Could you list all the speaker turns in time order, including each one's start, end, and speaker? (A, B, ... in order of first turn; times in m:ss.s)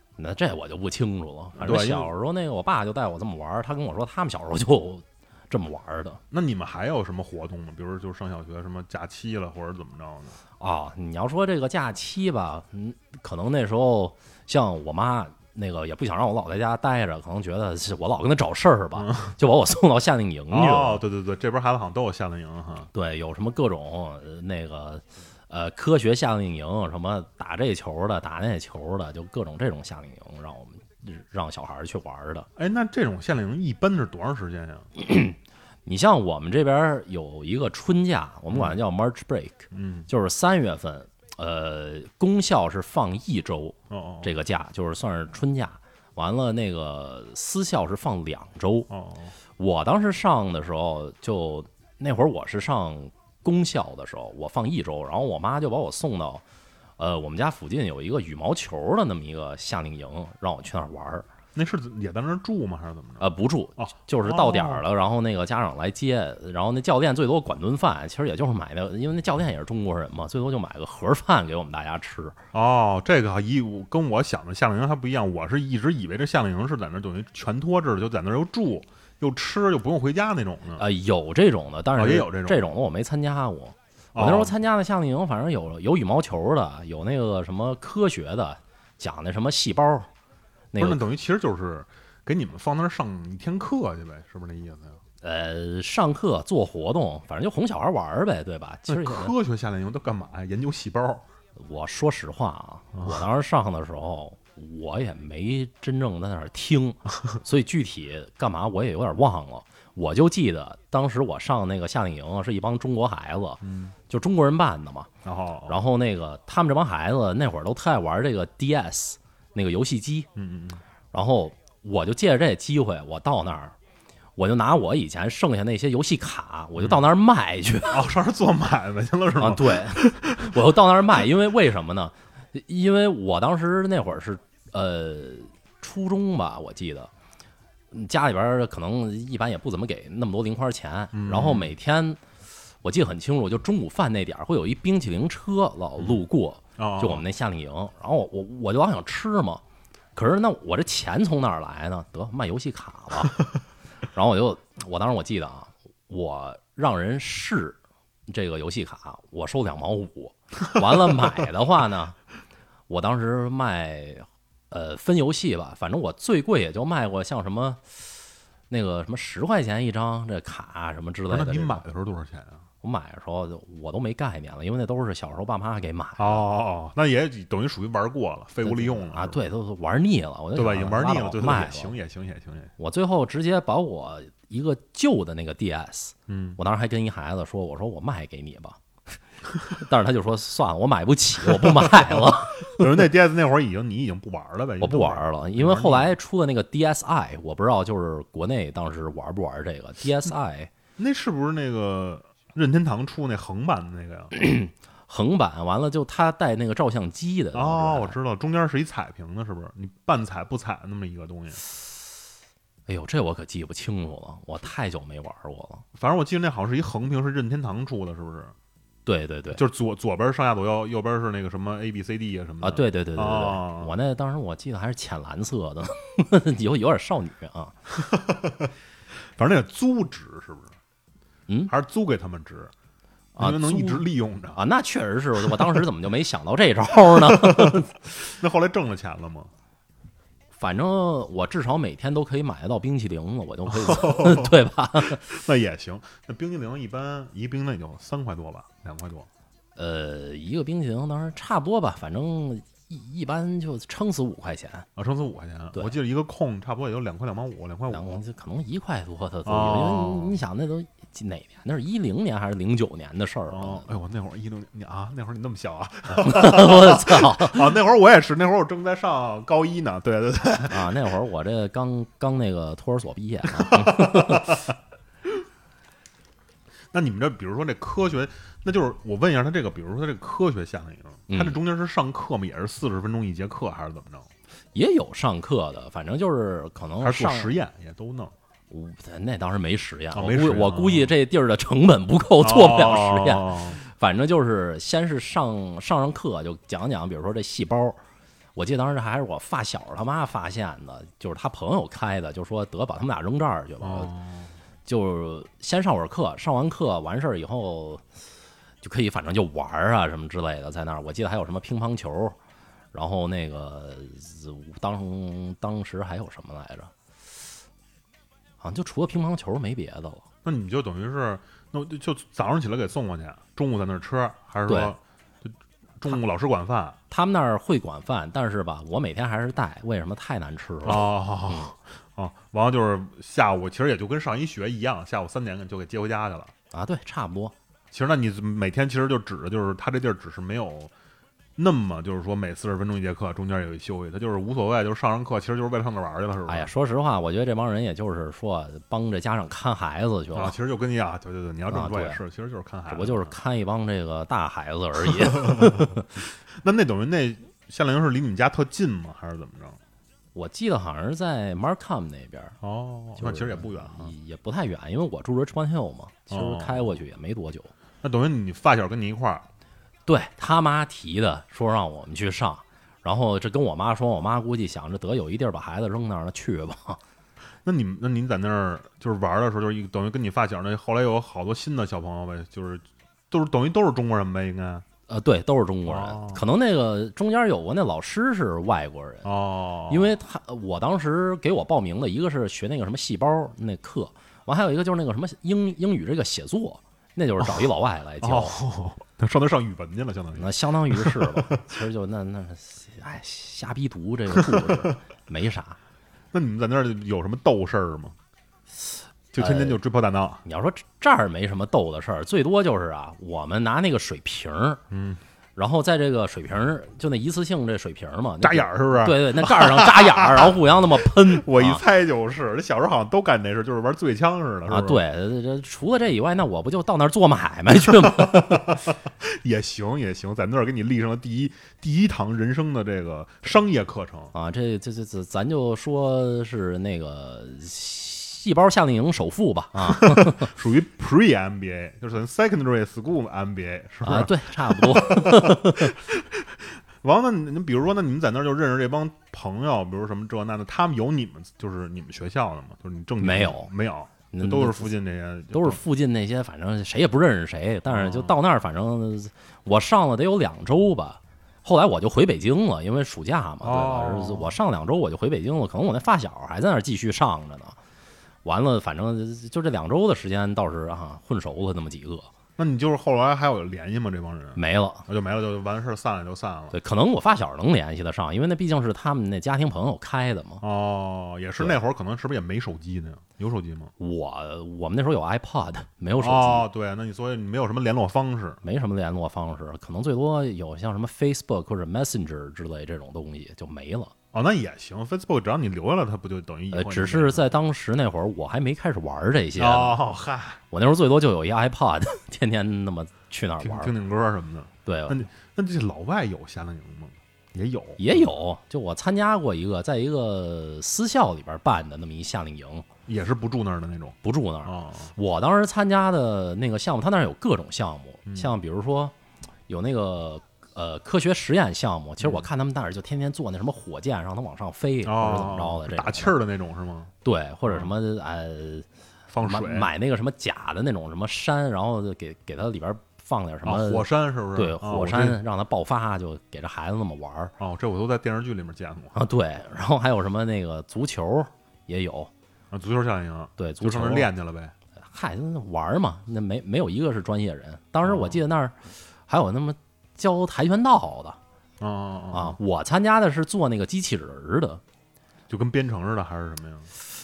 0:00.2-0:06.2 A
0:01.5-0:02.1 B
0:06.3-0:10.4 B
0:10.6-0:21.0 A
0:19.0-0:19.4 B
0:20.5-0:22.9 B
0:22.9-0:32.5 A
0:32.6-0:34.9 B
0:35.0-0:48.9 A
0:38.5-0:38.8 B
0:39.7-0:40.1 B
0:43.9-0:44.3 B
0:48.9-0:49.3 B
0:49.6-0:56.4 A
0:57.0-1:01.2 A
1:01.5-1:04.8 B
1:03.2-1:12.4 A
1:12.5-1:20.8 B
1:20.8-1:30.1 A
1:22.0-1:22.7 B
1:24.1-1:24.5 B
1:30.7-1:31.0 A
1:30.8-1:35.0 B
1:35.2-1:39.3 A
1:38.9-1:41.2 B
1:41.6-1:55.1 A
1:43.0-1:43.2 B
1:53.6-1:53.9 B
1:55.2-1:55.8 B
1:55.7-2:00.3 A
2:00.4-2:00.8 B
2:01.1-2:03.7 A
2:04.4-2:08.0 A
2:07.9-2:10.6 B
2:09.4-2:17.1 A
2:17.9-2:22.2 A
2:21.1-2:21.7 B
2:22.8-2:29.6 A
2:26.8-2:27.2 B
2:30.1-2:33.4 A
2:34.1-2:42.2 A
2:42.9-2:48.0 A
2:48.7-2:51.8 A
2:51.3-2:52.6 B
2:52.8-2:56.4 A
2:56.2-2:59.4 B
2:58.6-3:01.9 A
3:00.5-3:02.7 B
3:02.8-3:08.8 A
3:06.3-3:06.6 B
3:09.7-3:12.9 A
3:11.6-3:16.1 B
3:14.8-3:20.7 A
3:21.0-3:24.3 B
3:24.3-3:28.2 A
3:27.5-3:31.6 B
3:32.9-3:35.8 A
3:36.0-3:38.5 B
3:39.0-3:39.6 A
3:39.5-3:43.9 B
3:42.6-3:47.8 A
3:48.0-3:48.7 B
3:49.4-3:50.7 B
3:51.7-3:52.7 B
3:53.4-3:57.9 A
3:53.4-3:54.6 B
3:55.4-3:55.8 B
3:57.1-3:59.5 B
4:00.6-4:05.2 A
4:03.7-4:04.6 B
4:05.1-4:09.3 B
4:09.8-4:14.8 A
4:15.0-4:18.0 B
4:17.9-4:23.9 A
4:19.4-4:20.4 B
4:23.5-4:30.9 B
4:26.2-4:27.7 A
4:30.7-4:34.5 A
4:33.6-4:34.6 B
4:36.9-4:44.3 B
4:41.3-4:41.6 A
4:44.7-4:47.5 A
4:47.0-4:48.3 B
4:48.7-4:58.0 A
4:50.1-4:51.1 B
4:52.4-4:53.8 B
4:58.5-5:04.1 A
5:03.8-5:04.5 B
5:04.8-5:08.0 A
5:08.8-5:12.4 A
5:12.9-5:16.9 A
5:18.6-5:20.2 A
5:20.4-5:27.0 B
5:24.7-5:25.0 A
5:27.1-5:31.7 A
5:30.8-5:36.5 B
5:36.7-5:37.5 A
5:37.9-5:40.9 B
5:41.6-5:46.7 B
5:46.5-5:50.5 A
5:50.3-5:53.3 B
5:51.7-5:52.2 A
5:52.9-5:56.1 A
5:55.1-5:56.0 B
5:56.5-5:59.8 B
6:00.3-6:02.6 A
6:02.6-6:04.1 B
6:03.2-6:07.7 A
6:06.3-6:06.9 B
6:08.0-6:09.4 B
6:10.0-6:17.0 A
6:17.6-6:24.8 B
6:25.1-6:29.3 A
6:25.8-6:26.4 B
6:29.2-6:30.1 B
6:29.9-6:38.6 A
6:38.2-6:41.6 B
6:40.4-6:45.8 A
6:44.4-6:44.7 B
6:46.3-6:48.2 B
6:49.3-6:50.4 B
6:49.4-6:49.8 A
6:50.4-6:54.8 A
6:54.9-6:55.2 B
6:55.6-7:01.8 A
6:58.4-7:05.0 B
7:04.7-7:08.8 A
7:08.0-7:14.3 B
7:14.3-7:20.5 A
7:19.8-7:35.8 B
7:24.0-7:25.9 A
7:33.2-7:33.7 A
7:34.3-7:34.9 A
7:35.5-7:47.8 A
7:37.9-7:38.4 B
7:43.6-7:44.5 B
7:48.4-7:52.3 A
7:52.6-7:56.8 B
7:54.6-7:55.0 A
7:56.7-8:00.6 A
8:00.6-8:03.9 B
8:04.0-8:06.7 A
8:06.2-8:08.6 B
8:08.6-8:14.1 A
8:14.3-8:17.5 B
8:16.7-8:20.0 A
8:19.6-8:20.6 B
8:20.7-8:23.9 A
8:23.6-8:28.3 B
8:24.8-8:25.2 A
8:28.0-8:32.8 A
8:33.1-8:35.1 B
8:34.2-8:39.1 A
8:38.3-8:38.6 B
8:39.7-8:46.4 A
8:42.2-8:42.5 B
8:45.0-8:47.1 B
8:47.2-8:48.9 A
8:47.7-8:47.9 B
8:49.3-8:49.9 B
8:49.4-8:57.5 A
8:53.6-8:55.4 B
8:57.6-8:59.2 B
8:59.1-9:02.3 A
9:02.7-9:04.7 B
9:03.6-9:04.3 A
9:05.0-9:11.4 A
9:08.0-9:08.4 B
9:11.8-9:12.6 B
9:12.3-9:14.8 A
9:15.5-9:16.9 B